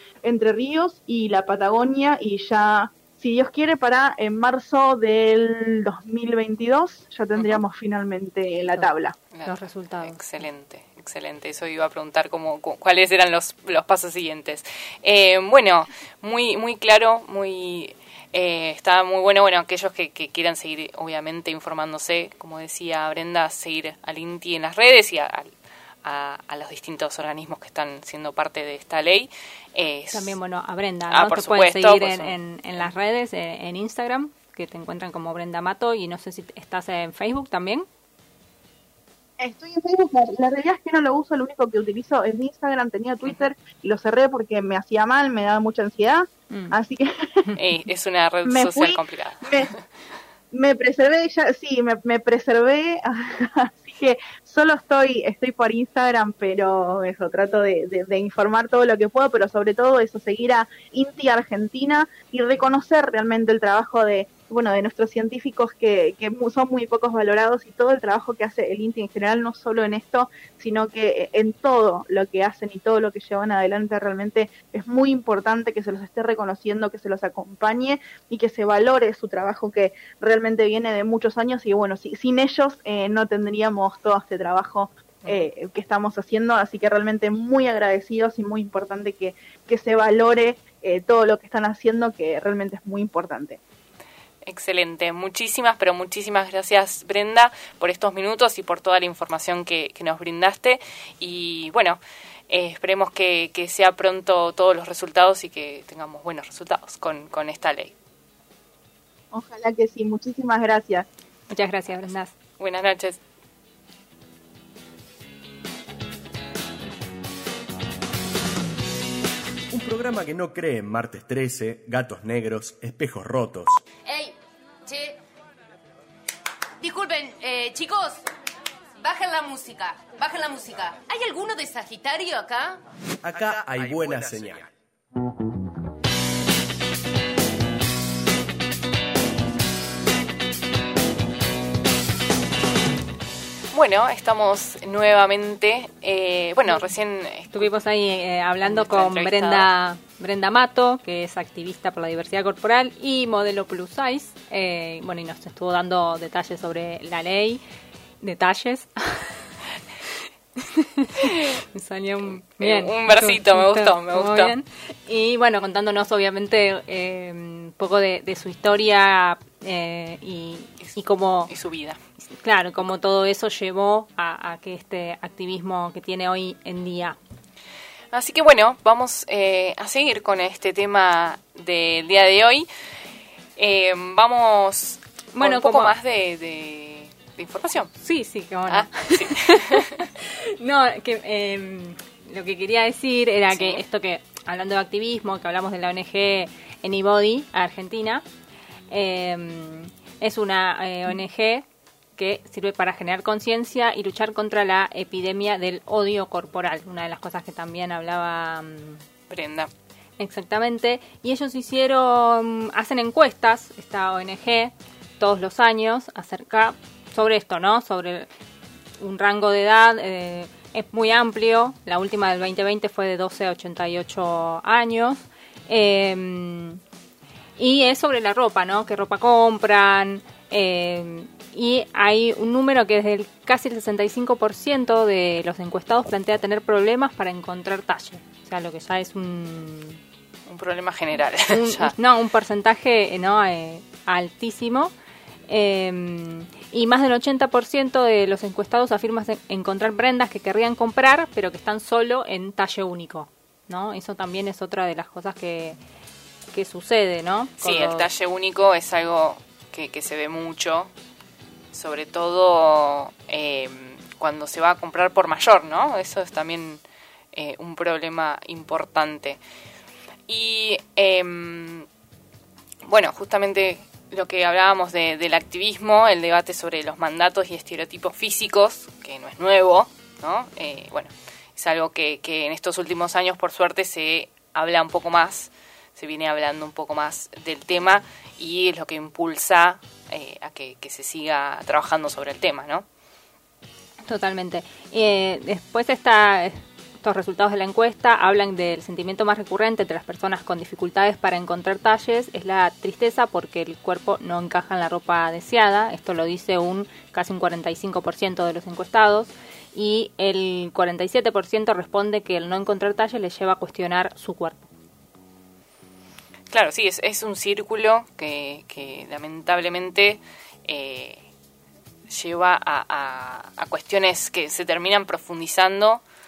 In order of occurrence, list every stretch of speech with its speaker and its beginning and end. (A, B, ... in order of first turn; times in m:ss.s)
0:00.2-0:09.2 A
0:07.4-0:07.6 B
0:09.3-0:25.5 B
0:09.4-0:10.4 C
0:26.0-0:30.4 B
0:30.1-0:37.9 C
0:31.1-0:32.9 B
0:39.4-0:47.4 A
0:46.5-0:46.8 C
0:47.6-0:49.8 B
0:48.4-0:49.7 A
0:50.5-1:33.6 A
1:34.4-1:47.9 B
1:49.3-1:51.0 A
1:51.5-1:52.3 C
1:52.6-1:53.2 B
1:59.7-2:03.8 D
2:04.1-2:04.3 E
2:06.8-2:08.1 E
2:09.0-2:12.8 E
2:13.2-2:14.7 D
2:23.7-2:27.7 B
2:27.5-2:37.6 C
2:28.6-2:29.7 B
2:38.2-2:39.5 C
2:40.6-2:51.5 C
2:42.2-2:44.5 B
2:51.5-2:52.0 B
2:52.2-2:57.2 C
2:58.1-3:02.7 B
3:03.6-3:07.9 B
3:05.3-3:05.9 C
3:08.0-3:18.2 C
3:08.7-3:10.1 B
3:13.5-3:13.8 B
3:18.9-3:21.6 C
3:22.2-3:29.0 C
3:29.3-3:29.7 B
3:30.2-3:38.3 C
3:39.0-3:46.8 C
3:47.6-4:00.0 C
4:00.5-4:01.9 B
4:01.4-4:04.9 C
4:05.5-4:15.8 C
4:16.5-4:18.1 C
4:17.6-4:20.9 B
4:21.7-4:26.8 B
4:27.3-4:29.4 B
4:30.3-4:31.9 B
4:32.8-4:52.8 B
4:54.0-5:14.7 C
5:16.5-5:21.2 B
5:22.1-5:26.0 B